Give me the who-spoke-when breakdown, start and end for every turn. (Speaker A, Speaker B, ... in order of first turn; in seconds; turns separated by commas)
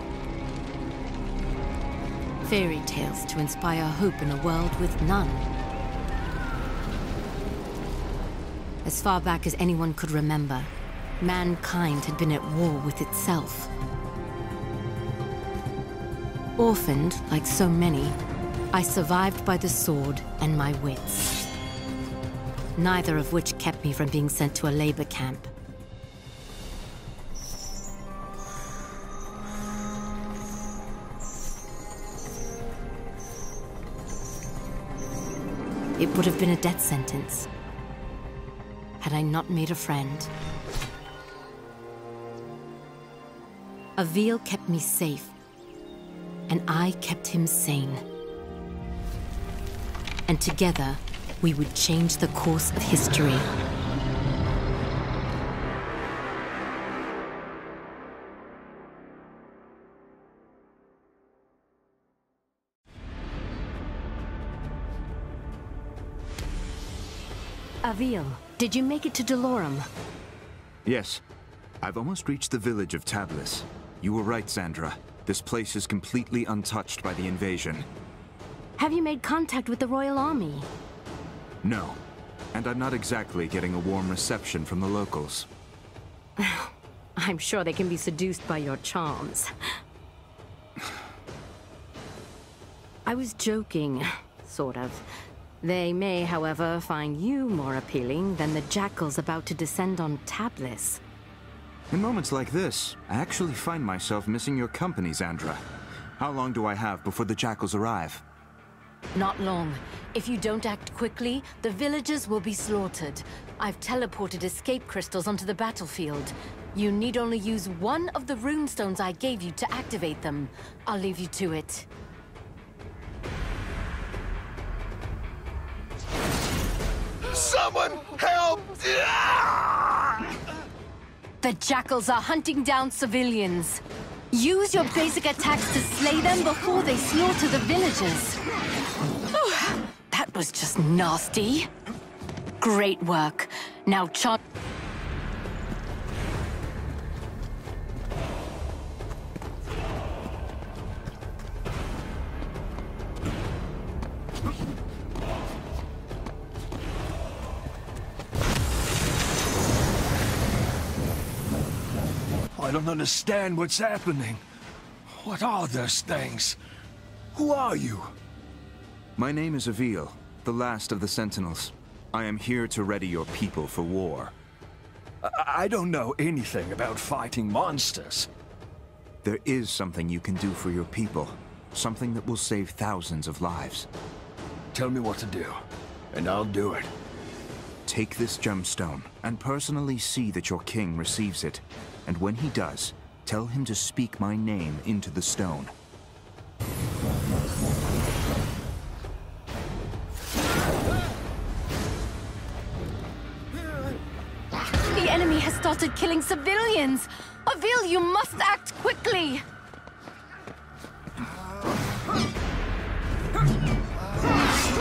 Speaker A: 2.4-5.4, Speaker A: 8.8-13.7, Speaker A: 16.6-18.2, Speaker A: 18.7-21.3, Speaker A: 22.8-25.5, Speaker A: 36.0-37.5, Speaker A: 39.0-40.3, Speaker A: 44.0-45.3, Speaker A: 46.5-48.0, Speaker A: 50.3-53.5, Speaker A: 67.8-69.9, Speaker B: 70.8-71.2, Speaker B: 71.8-77.9, Speaker A: 78.8-80.7, Speaker B: 81.6-82.0, Speaker B: 82.5-85.5, Speaker A: 86.4-89.5, Speaker A: 93.0-95.0, Speaker A: 95.6-101.0, Speaker B: 101.9-105.6, Speaker B: 106.2-108.2, Speaker A: 109.1-121.9, Speaker C: 127.3-130.0, Speaker A: 131.4-138.4, Speaker A: 139.3-141.7, Speaker A: 142.6-144.4, Speaker C: 162.5-164.4, Speaker C: 165.1-166.6, Speaker C: 167.3-168.1, Speaker B: 169.2-174.3, Speaker C: 175.2-178.3, Speaker B: 179.2-183.9, Speaker C: 184.7-185.6, Speaker C: 186.1-186.9, Speaker B: 187.8-195.7, Speaker A: 204.9-209.4